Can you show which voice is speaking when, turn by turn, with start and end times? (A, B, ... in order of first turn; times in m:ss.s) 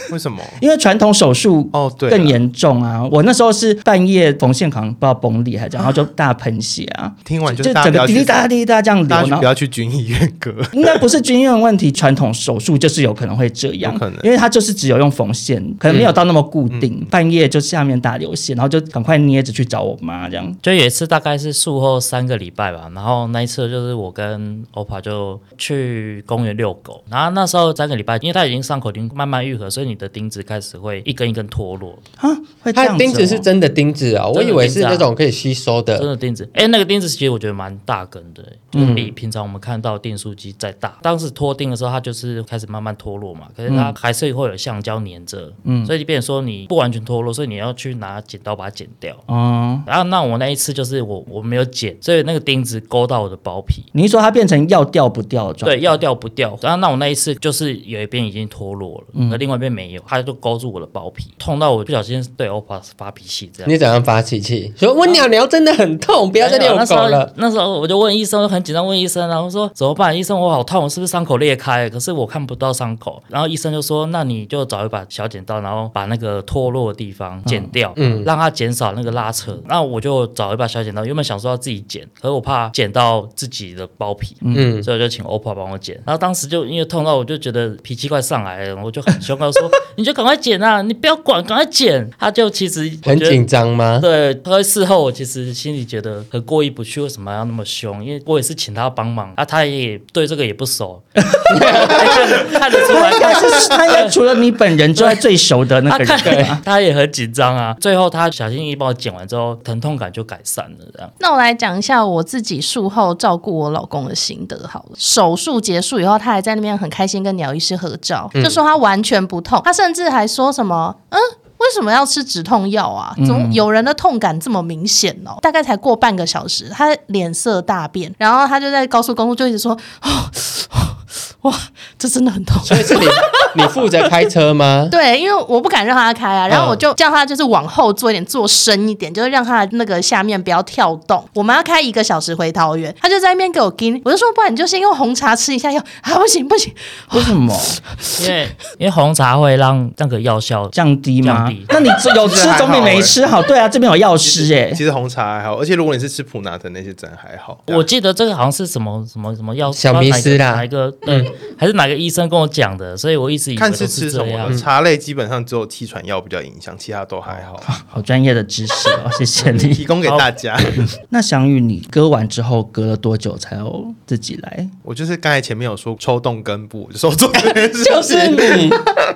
0:00.1-0:00.6 A
0:00.6-0:09.5 B
0:01.7-0:02.4 A
0:07.2-0:08.4 A
0:09.1-0:11.0 A
0:10.7-0:20.6 B
0:13.8-0:14.3 A
0:16.7-0:17.1 A
0:20.6-0:32.0 C
0:32.2-0:33.4 B
0:32.7-0:36.1 D
0:34.3-0:35.1 C
0:36.0-0:49.2 C
0:38.7-0:39.1 B
0:38.8-0:39.0 D
0:43.7-0:43.9 B
0:45.6-0:45.9 B
0:49.3-0:49.8 B
0:49.8-0:53.9 C
0:53.9-0:56.0 B
0:55.6-1:03.7 C
0:59.1-0:59.4 B
1:03.6-1:07.3 D
1:06.4-1:33.4 C
1:17.4-1:17.7 B
1:18.0-1:18.3 D
1:24.4-1:24.7 B
1:24.5-1:24.9 D
1:33.0-1:34.1 D
1:34.0-1:44.1 C
1:41.5-1:43.2 D
1:42.9-1:46.6 B
1:44.9-1:45.2 C
1:45.8-1:51.1 C
1:46.2-1:46.6 D
1:51.2-2:13.6 E
1:58.3-1:58.6 D
2:03.2-2:03.6 B
2:12.6-2:15.0 D
2:14.9-2:28.3 E
2:16.5-2:16.8 D
2:27.1-2:27.8 B
2:28.1-2:31.7 C
2:30.7-2:34.8 B
2:32.1-2:33.2 A
2:34.2-2:37.9 A
2:37.7-2:44.6 C
2:39.7-2:41.3 D
2:43.6-2:47.7 A
2:47.6-2:49.8 B
2:49.4-2:50.8 A
2:50.0-2:50.3 C
2:51.0-2:54.7 B
2:54.8-2:58.8 A
2:57.3-2:58.9 D